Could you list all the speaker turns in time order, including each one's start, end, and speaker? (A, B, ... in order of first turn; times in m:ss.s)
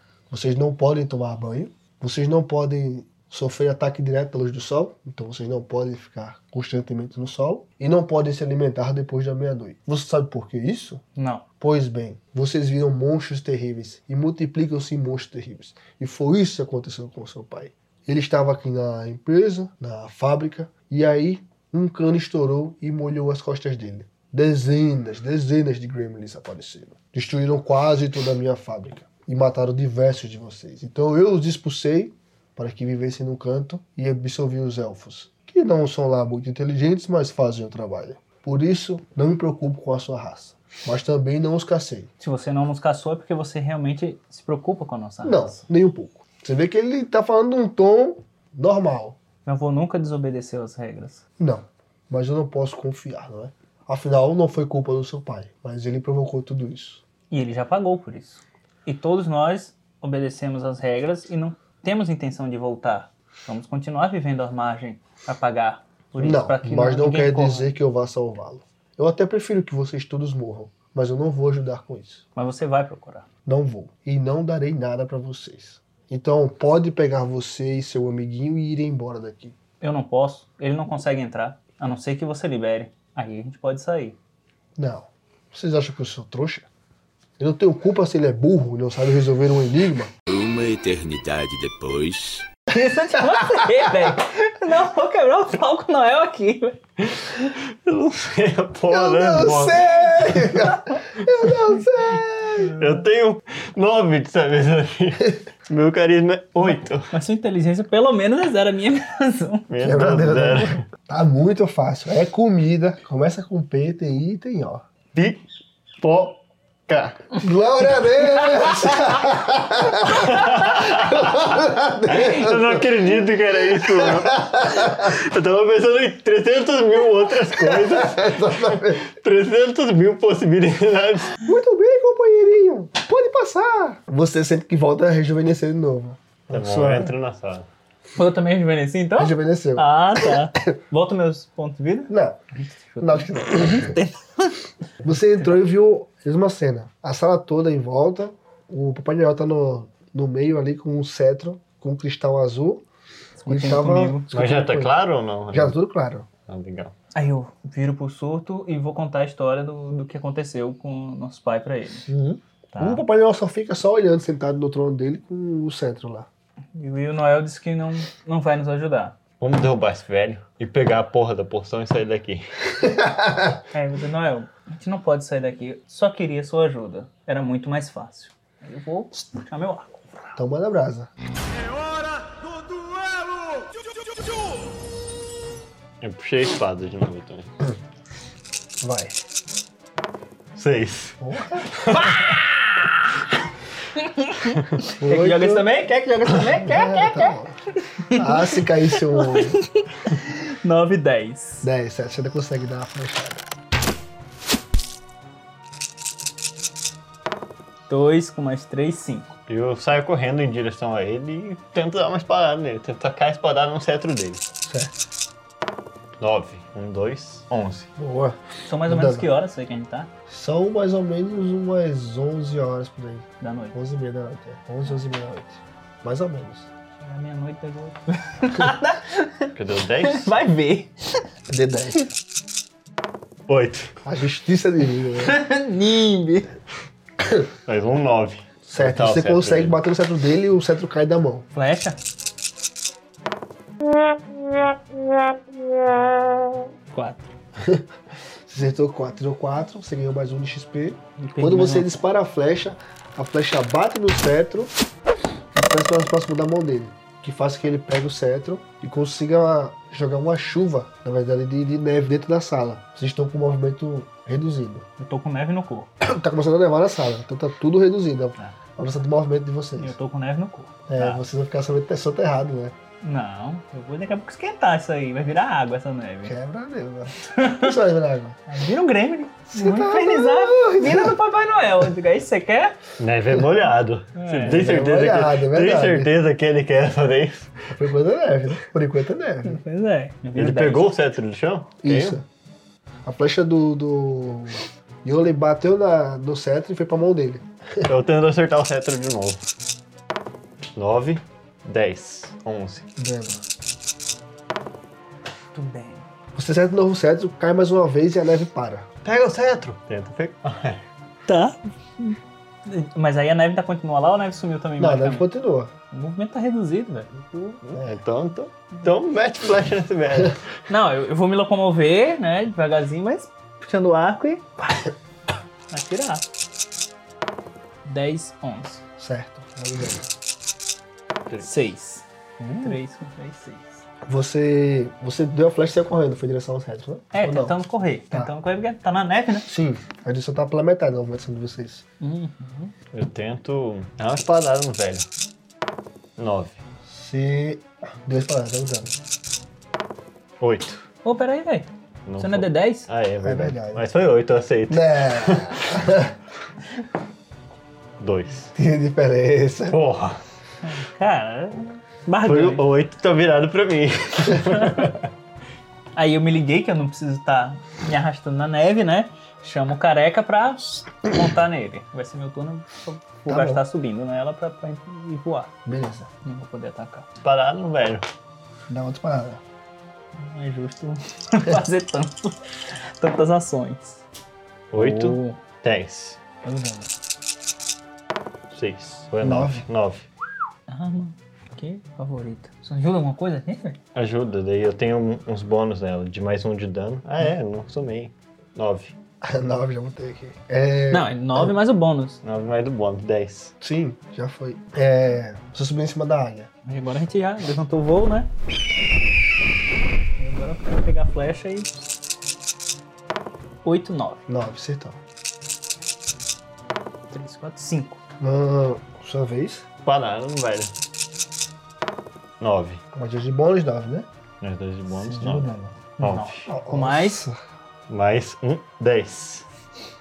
0:00.3-0:11.0 A
0:11.2-0:11.4 B
0:11.6-0:42.1 A
0:42.2-0:45.6 B
0:45.2-0:49.2 A
0:49.4-0:51.2 B
0:51.4-0:57.0 A
0:57.3-1:07.7 B
1:06.2-1:12.2 A
1:12.4-1:13.3 B
1:13.4-1:19.6 A
1:19.8-1:24.2 B
1:24.8-1:26.7 A
1:27.4-1:30.1 A
1:30.3-1:32.4 C
1:32.7-1:36.8 B
1:37.2-1:40.5 D
1:38.9-1:42.7 A
1:42.7-1:47.1 D
1:46.6-1:49.7 B
1:49.7-1:50.8 D
1:49.8-1:54.8 A
1:55.1-1:55.4 D
1:56.0-1:57.2 D
1:57.4-2:02.8 A
2:00.1-2:01.5 D
2:02.1-2:11.3 D
2:03.8-2:05.1 A
2:07.6-2:09.0 A
2:11.4-2:17.1 A
2:16.5-2:17.7 D
2:18.2-2:24.7 B
2:19.2-2:20.3 A
2:22.1-2:22.4 A
2:23.0-2:24.0 A
2:25.0-2:32.8 A
2:33.4-2:34.3 B
2:33.5-2:34.9 A
2:34.3-2:35.7 D
2:35.5-2:36.3 A
2:36.5-2:36.9 D
2:37.1-2:42.0 B
2:42.0-2:46.3 A
2:42.7-2:43.0 B
2:46.7-2:49.2 B
2:49.4-2:52.5 D
2:52.8-2:53.5 A
2:53.7-3:00.4 B
3:00.4-3:01.1 A
3:06.0-3:07.5 D
3:08.8-3:09.2 A
3:10.6-3:12.4 D
3:11.2-3:11.8 A
3:11.9-3:12.9 B
3:14.0-3:21.7 B
3:15.0-3:15.6 A
3:16.5-3:17.6 A
3:18.1-3:19.6 A
3:21.6-3:23.4 A
3:27.9-3:29.3 B
3:29.5-3:34.4 D
3:34.6-3:34.9 A
3:36.2-3:37.9 D
3:38.0-3:39.3 A
3:38.6-3:40.1 B
3:40.3-3:46.7 A
3:43.4-3:43.7 B
3:47.0-3:49.5 B
3:49.5-3:50.3 D
3:50.0-3:51.2 B
3:51.5-3:52.1 A
3:53.5-3:53.9 D
3:54.0-3:55.4 A
3:55.2-3:56.5 B
3:57.6-3:59.8 D
3:58.6-4:01.4 A
4:01.5-4:02.0 B
4:06.9-4:07.3 B
4:07.6-4:07.8 A
4:08.4-4:14.7 A
4:11.2-4:12.0 B
4:15.5-4:24.8 A
4:25.0-4:25.9 B
4:26.0-4:29.9 A
4:29.8-4:31.2 B
4:30.9-4:32.7 A
4:33.0-4:36.3 B
4:36.2-4:38.4 A
4:37.3-4:37.7 B
4:38.5-4:42.8 B
4:39.5-4:41.2 A
4:43.0-4:47.7 D
4:44.1-4:44.7 B
4:44.5-4:46.1 A
4:47.7-4:49.6 A
4:49.4-4:50.9 B
4:50.3-4:52.2 D
4:51.8-4:52.2 A
4:53.0-4:57.9 A
4:57.8-4:59.4 D
5:00.7-5:02.9 D
5:03.0-5:03.4 A
5:05.5-5:06.0 B
5:06.3-5:08.9 A
5:09.0-5:10.8 D
5:11.3-5:15.3 B
5:14.8-5:15.7 A
5:15.9-5:17.6 B
5:17.6-5:20.4 D
5:20.7-5:24.5 B
5:25.7-5:26.2 B
5:27.8-5:28.8 B
5:29.0-5:30.1 A
5:31.4-5:33.8 B
5:34.0-5:37.6 A
5:37.1-5:39.5 B
5:39.5-5:41.8 A
5:42.0-5:42.7 B
5:42.9-5:45.1 D
5:46.2-5:46.6 D
5:46.8-5:49.0 A
5:50.4-5:50.8 D
5:51.0-5:51.7 B
5:52.0-5:55.6 D
5:52.2-5:52.9 B
5:53.2-5:53.8 A
5:54.7-5:56.1 A
5:58.0-5:58.5 D
5:58.5-5:59.8 A
5:59.7-6:00.2 D
6:00.6-6:02.6 B
6:02.2-6:05.1 D
6:06.0-6:15.5 B
6:13.3-6:13.6 A
6:15.6-6:16.1 A
6:16.2-6:17.0 B
6:17.2-6:18.0 D
6:18.7-6:19.4 A
6:20.1-6:24.0 B
6:24.7-6:26.2 D
6:24.8-6:25.4 B
6:26.4-6:26.9 A
6:28.5-6:30.1 D
6:29.2-6:29.6 A
6:30.7-6:33.8 B
6:33.9-6:38.9 D
6:39.2-6:41.5 A
6:40.9-6:42.2 B
6:42.2-6:43.5 D
6:43.6-6:46.5 A
6:46.6-6:48.3 B
6:50.2-6:51.7 B
6:53.6-6:54.2 B
6:54.3-6:55.0 A
6:57.1-6:58.0 B
6:58.2-6:59.6 A
6:59.8-7:00.7 D
7:02.4-7:02.8 D
7:02.9-7:04.1 A
7:04.4-7:06.4 D
7:04.9-7:05.8 A
7:06.0-7:07.3 B
7:06.5-7:07.4 A
7:07.9-7:09.4 D